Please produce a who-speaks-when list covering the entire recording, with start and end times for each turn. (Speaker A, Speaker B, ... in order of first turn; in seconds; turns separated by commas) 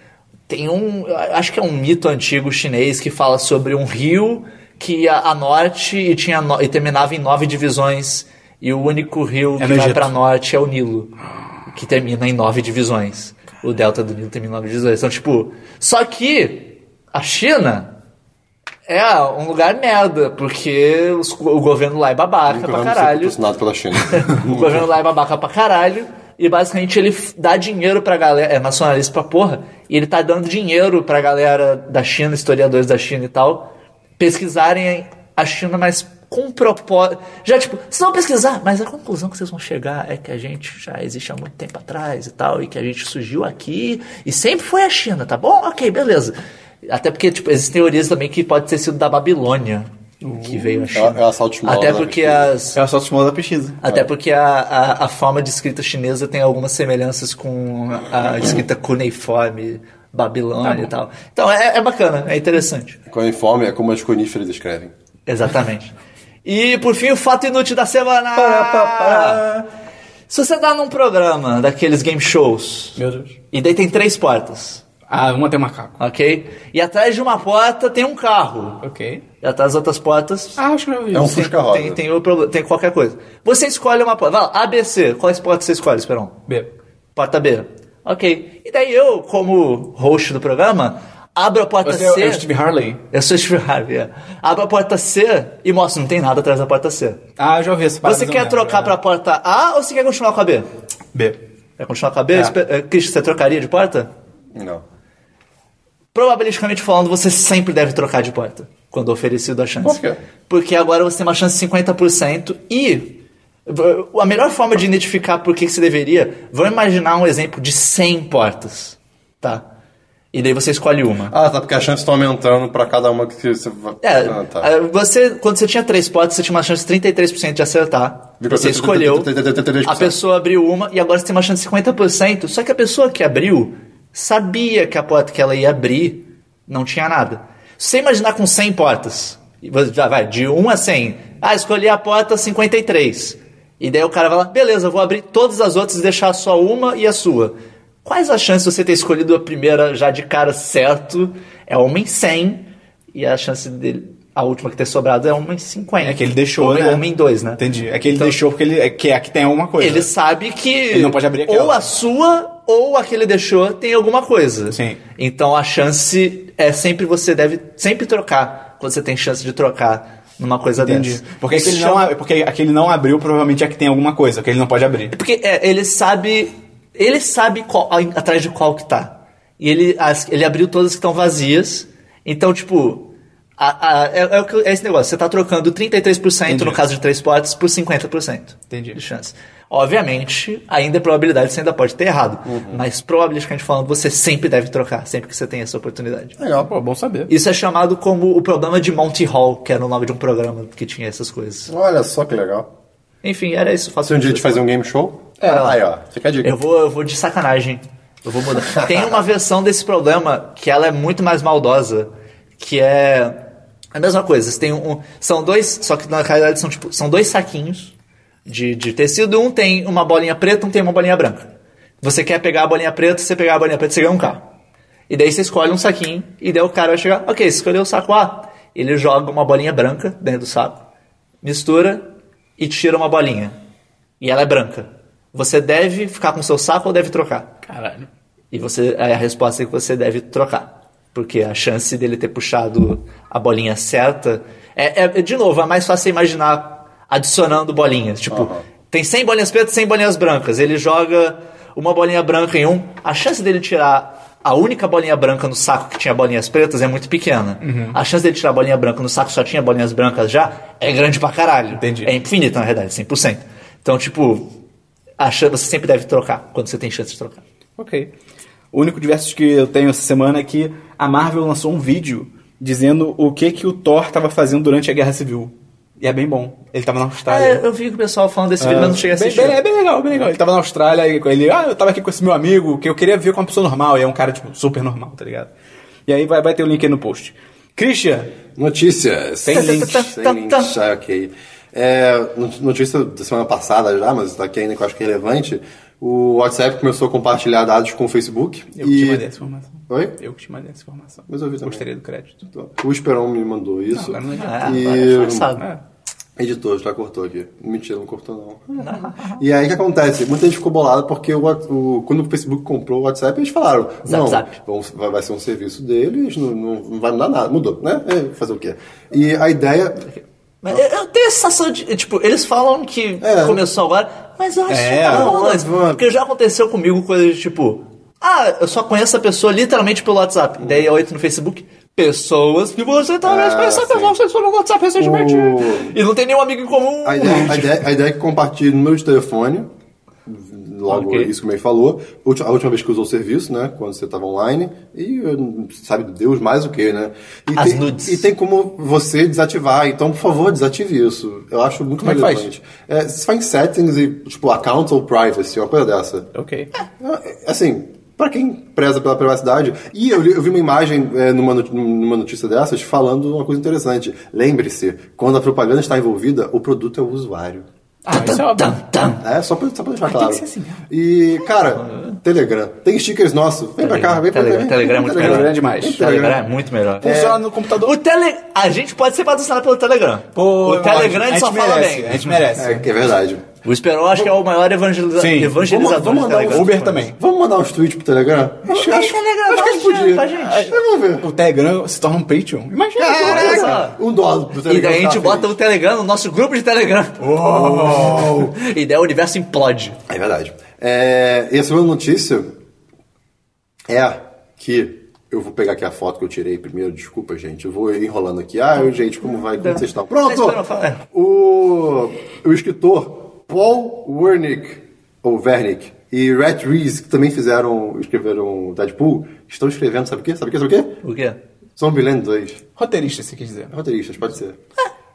Speaker A: 0.5-11.1, Speaker B: 9.6-10.1, Speaker A: 11.7-17.9, Speaker A: 18.9-23.4, Speaker C: 22.5-24.9, Speaker A: 24.1-46.3, Speaker A: 46.9-52.8, Speaker C: 50.9-52.5, Speaker B: 52.7-53.8, Speaker A: 53.8-63.0, Speaker B: 60.6-60.9, Speaker C: 63.1-64.9, Speaker A: 65.3-65.9, Speaker A: 66.4-69.5, Speaker C: 68.3-69.7, Speaker A: 70.3-73.0, Speaker B: 73.0-73.3, Speaker A: 73.5-74.8, Speaker B: 75.1-75.9, Speaker A: 76.0-78.8, Speaker B: 78.8-79.2, Speaker A: 79.4-80.6, Speaker B: 80.6-81.5, Speaker C: 81.1-82.0, Speaker A: 81.2-86.4, Speaker A: 87.2-92.5, Speaker B: 91.8-93.0, Speaker A: 93.1-97.2, Speaker B: 97.4-99.0, Speaker A: 98.0-100.7, Speaker A: 101.8-104.1, Speaker C: 104.5-104.8, Speaker A: 106.1-119.7, Speaker C: 109.8-110.2, Speaker A: 120.3-121.3, Speaker C: 121.3-124.7, Speaker A: 124.0-129.3, Speaker C: 128.4-130.1, Speaker A: 129.8-158.4, Speaker B: 156.0-157.1, Speaker B: 157.6-160.1, Speaker A: 159.8-172.1, Speaker B: 160.9-161.9, Speaker B: 164.7-165.0, Speaker B: 170.8-175.2, Speaker A: 175.1-196.4, Speaker B: 186.5-186.8, Speaker B: 188.7-189.0, Speaker C: 192.4-192.8, Speaker C: 196.4-196.7, Speaker B: 196.5-197.3, Speaker A: 197.3-201.7, Speaker C: 201.7-202.7, Speaker A: 203.2-204.7, Speaker C: 204.0-206.5, Speaker B: 205.4-205.8, Speaker A: 205.4-205.8, Speaker A: 206.4-213.4, Speaker C: 208.6-209.2, Speaker A: 213.9-217.9, Speaker A: 218.4-221.5, Speaker A: 222.0-224.5, Speaker A: 225.1-230.8, Speaker A: 231.4-233.6, Speaker A: 234.2-237.6, Speaker B: 237.7-238.1, Speaker A: 238.5-264.5, Speaker C: 248.3-248.6, Speaker B: 257.6-258.0, Speaker B: 261.8-262.1, Speaker A: 265.2-267.4, Speaker B: 267.8-268.1, Speaker B: 268.7-277.6, Speaker A: 277.3-279.6, Speaker B: 278.6-285.5, Speaker B: 286.1-288.4, Speaker C: 288.6-299.2, Speaker B: 289.4-290.0, Speaker A: 289.5-290.7, Speaker B: 298.8-302.5, Speaker C: 299.9-300.1, Speaker C: 301.3-301.8, Speaker C: 302.5-305.5, Speaker B: 303.9-304.8, Speaker A: 304.3-305.6, Speaker C: 306.4-320.1, Speaker A: 308.8-309.4, Speaker A: 314.0-314.5, Speaker A: 320.1-337.8, Speaker C: 323.2-323.6, Speaker B: 324.7-325.4, Speaker C: 325.1-326.1, Speaker C: 333.2-334.1, Speaker C: 335.0-335.9, Speaker C: 337.0-339.7, Speaker C: 340.2-356.3, Speaker A: 340.9-341.3, Speaker A: 347.5-348.3, Speaker B: 352.0-352.5, Speaker B: 356.3-356.7, Speaker C: 357.0-367.6, Speaker B: 368.1-368.8, Speaker A: 368.1-369.2, Speaker C: 369.2-376.4, Speaker B: 370.1-370.8, Speaker A: 371.8-372.1, Speaker A: 373.8-382.5, Speaker B: 375.1-376.0, Speaker B: 377.0-377.9, Speaker C: 377.0-377.4, Speaker B: 380.3-382.9, Speaker C: 382.5-383.4, Speaker A: 383.6-387.1, Speaker B: 385.2-385.6, Speaker C: 385.6-391.3, Speaker B: 386.5-387.2, Speaker A: 388.7-390.8, Speaker B: 388.8-389.1, Speaker B: 390.3-393.8, Speaker C: 392.9-395.5, Speaker A: 393.0-393.9, Speaker A: 394.6-400.0, Speaker B: 397.2-398.4, Speaker C: 397.4-398.5, Speaker C: 400.1-402.5, Speaker C: 403.9-410.6, Speaker A: 409.6-411.0, Speaker C: 411.1-421.0, Speaker A: 421.0-421.4, Speaker C: 421.8-422.6, Speaker B: 422.8-423.7, Speaker C: 423.7-424.6